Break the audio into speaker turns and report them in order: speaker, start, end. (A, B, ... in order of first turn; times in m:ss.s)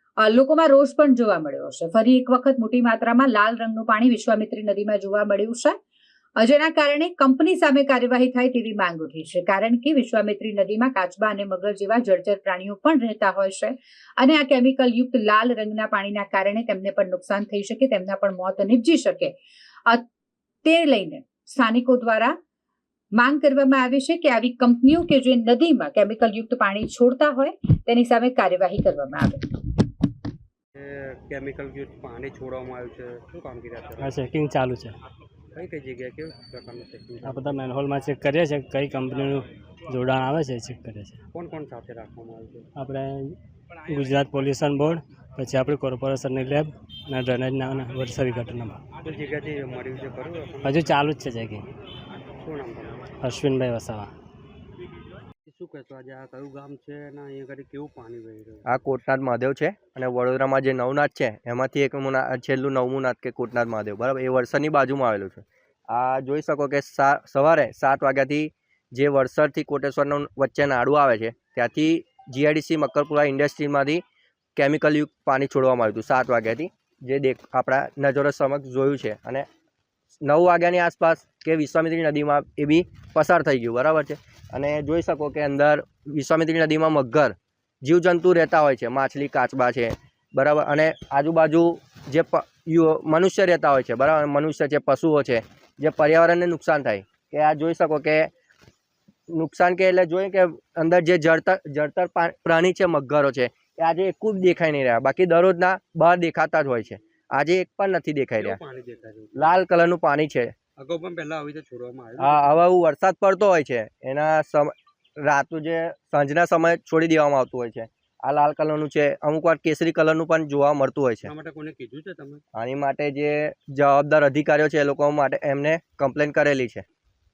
0:00.2-0:05.8 A
0:06.4-0:20.0 A
0:20.6-0:22.4 A
0:23.2-0:29.6 A
0:30.8-0:34.2 B
0:34.0-0:35.0 C
0:35.6-0:37.6 B
0:37.2-0:41.2 C
0:41.3-0:42.7 B
0:42.8-0:48.8 C
0:49.0-0:50.9 B
0:50.6-0:51.7 C
0:52.4-0:53.1 B
0:53.2-0:54.1 C
0:55.4-0:58.7 B
0:58.7-1:14.0 D
1:14.6-1:19.4 D
1:20.2-1:38.3 D
1:39.3-1:48.6 D
1:48.4-1:49.6 B
1:49.4-1:50.5 D
1:50.8-1:52.6 B
1:52.2-2:01.3 D
2:01.2-2:02.4 B
2:02.5-2:06.8 D